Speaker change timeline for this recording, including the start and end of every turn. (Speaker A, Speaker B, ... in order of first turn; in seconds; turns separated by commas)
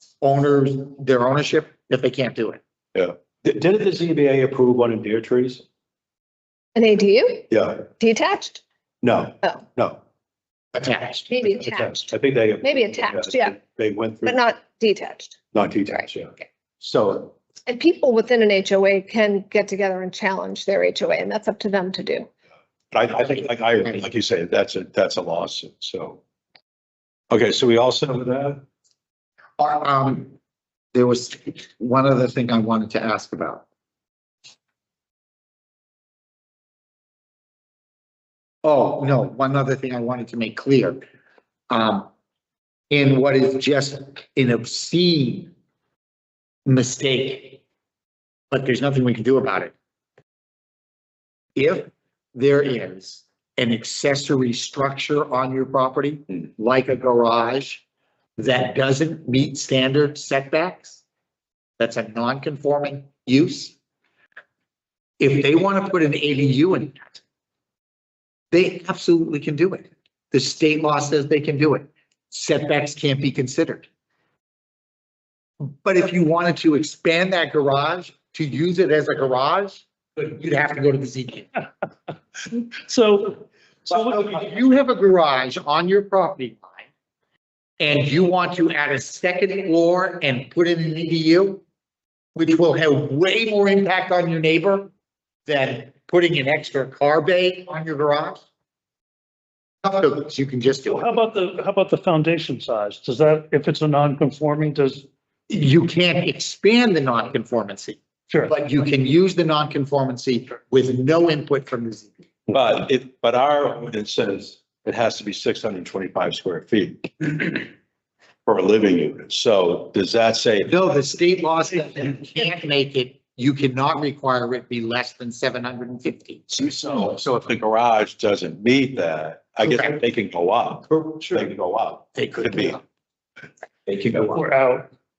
Speaker A: 0.2-2.6, Speaker B: 3.0-5.6, Speaker C: 6.8-7.5, Speaker B: 7.5-7.9, Speaker C: 8.0-8.6, Speaker B: 9.0-10.0, Speaker A: 10.8-11.2, Speaker B: 10.9-14.4, Speaker C: 11.3-12.1, Speaker C: 12.6-13.6, Speaker C: 14.2-15.4, Speaker B: 15.5-17.4, Speaker C: 17.7-22.3, Speaker B: 22.9-26.2, Speaker B: 27.3-28.6, Speaker A: 29.6-30.4, Speaker A: 30.9-33.6, Speaker A: 38.6-41.0, Speaker A: 41.7-42.1, Speaker A: 42.9-45.5, Speaker A: 46.7-47.6, Speaker A: 48.5-49.7, Speaker A: 51.6-57.8, Speaker A: 58.4-61.0, Speaker A: 61.8-63.8, Speaker A: 65.2-67.2, Speaker A: 68.5-73.8, Speaker A: 75.6-81.5, Speaker D: 82.8-84.2, Speaker A: 83.9-86.9, Speaker A: 87.8-91.6, Speaker A: 92.3-94.9, Speaker A: 95.5-98.4, Speaker A: 99.8-101.1, Speaker D: 100.9-105.1, Speaker A: 105.5-112.1, Speaker B: 112.5-117.7, Speaker B: 118.5-120.7, Speaker A: 120.7-126.7, Speaker B: 126.5-132.8, Speaker A: 129.6-129.9, Speaker A: 132.2-132.8, Speaker A: 133.9-134.4, Speaker D: 134.2-134.9